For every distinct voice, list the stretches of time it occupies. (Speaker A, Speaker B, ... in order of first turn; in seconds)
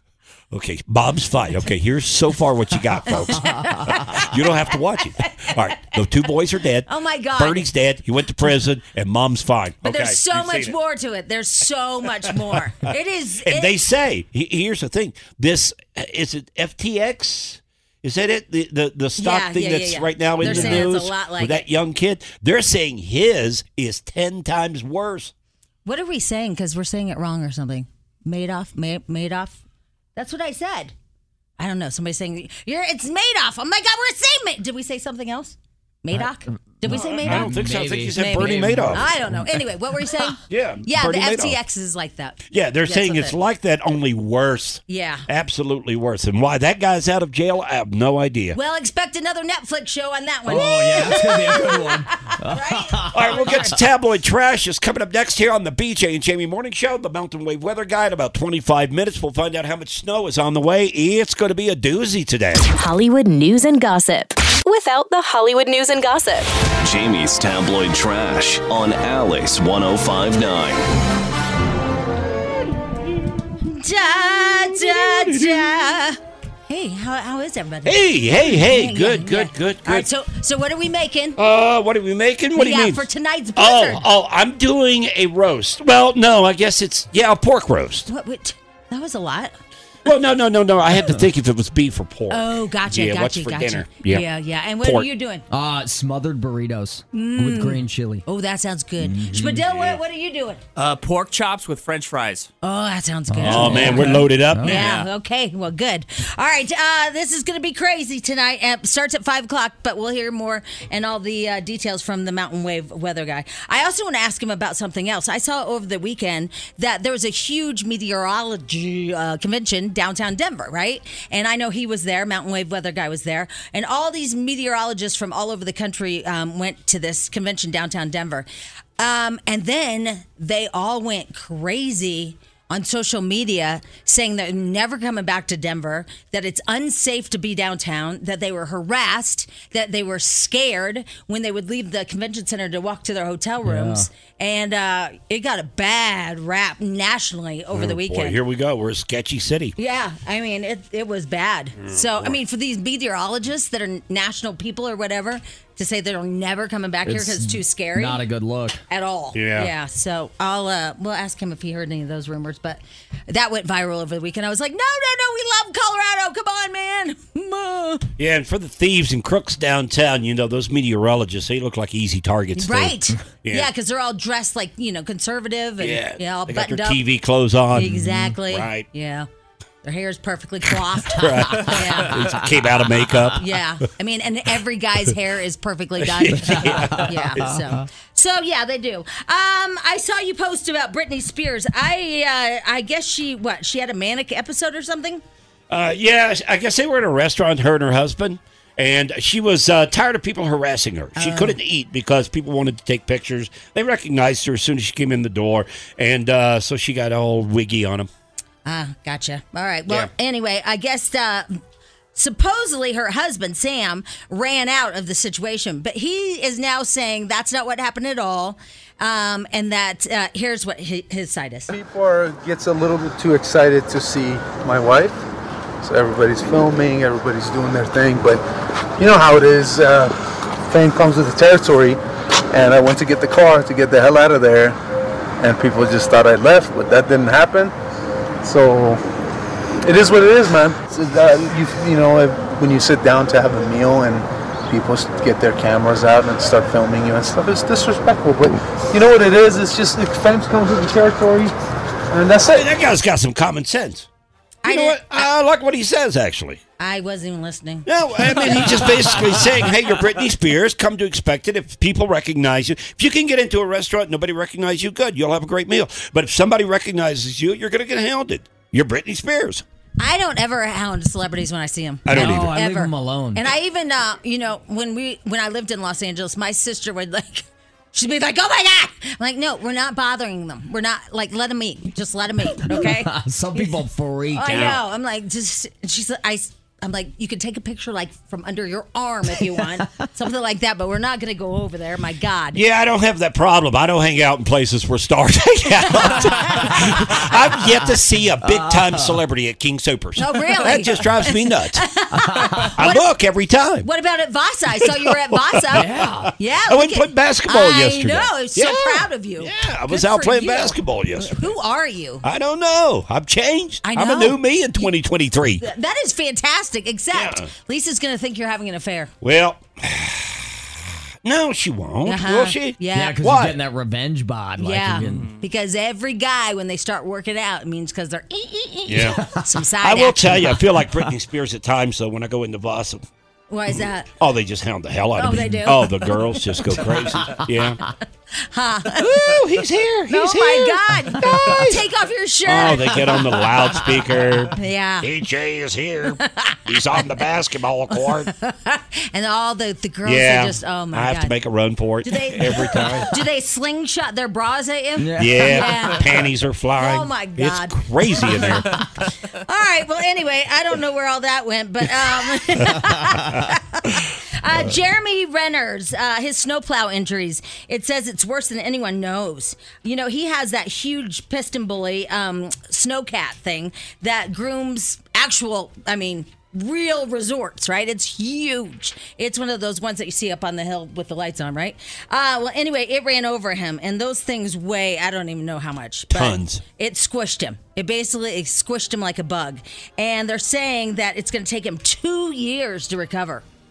Speaker A: 0.5-10.7, 13.4-25.3, 36.9-39.1, 40.5-41.6, 42.5-48.6, 50.6-51.2, 53.1-62.7, 74.7-75.8, 77.8-80.1, 81.4-88.1, 90.0-94.2, 94.8-95.1, 99.7-100.0, 103.4-104.9, 147.7-149.7, 151.8-152.4, 159.3-159.7, 168.2-173.7, 175.8-178.8, 181.2-183.4, 186.0-187.8, 195.7-208.1, 252.4-254.1, 254.7-256.6, 257.9-269.6, 272.0-272.5, 284.5-284.8, 292.5-301.8, 302.7-303.9, 304.8-311.5, 312.2-315.6, 317.1-317.5, 319.2-323.6, 328.9-333.1, 333.7-337.8, 339.0-341.9, 342.4-348.3, 350.0-353.1, 355.1-358.8, 386.1-386.6
Speaker B: 3.1-6.0, 6.9-7.7, 9.8-13.8, 19.2-21.6, 25.8-29.6, 30.1-30.9, 31.6-37.5, 38.1-43.4, 44.9-45.2, 48.5-53.8, 73.6-81.4, 82.5-84.0, 88.1-89.5, 92.3-95.4, 97.1-100.6, 102.6-128.5, 129.0-148.4, 149.8-158.2, 158.9-168.1, 172.6-177.0, 177.7-179.3, 179.8-182.4, 183.4-195.2, 201.2-201.6, 208.6-211.6, 212.1-221.7, 254.6-255.3, 256.8-259.1, 270.0-283.8, 284.3-292.6, 295.9-296.8, 300.2-303.1, 303.8-312.2, 313.8-314.9, 315.6-319.1, 322.0-323.2, 324.6-330.6, 333.5-334.1, 335.1-336.4, 338.3-339.3, 340.1-343.3, 344.5-345.1, 346.2-347.2, 348.0-351.3, 352.0-356.1, 356.8-393.4
Speaker C: 20.4-20.8, 36.8-39.6, 50.5-53.6, 95.5-98.2, 99.0-99.6, 103.3-104.8, 143.6-144.1, 157.1-158.8, 177.8-178.3, 186.7-187.4, 272.1-273.5, 282.6-284.7, 298.4-299.2, 302.3-302.6, 305.7-306.3, 322.9-325.3, 355.0-355.6
Speaker D: 62.7-66.5
Speaker E: 66.8-70.9
Speaker F: 100.8-102.5, 104.7-105.1
Speaker G: 221.7-225.2, 225.8-228.4, 229.0-230.1, 230.7-232.0, 232.5-234.8, 235.4-237.7, 238.4-239.0, 239.8-251.5, 252.1-252.6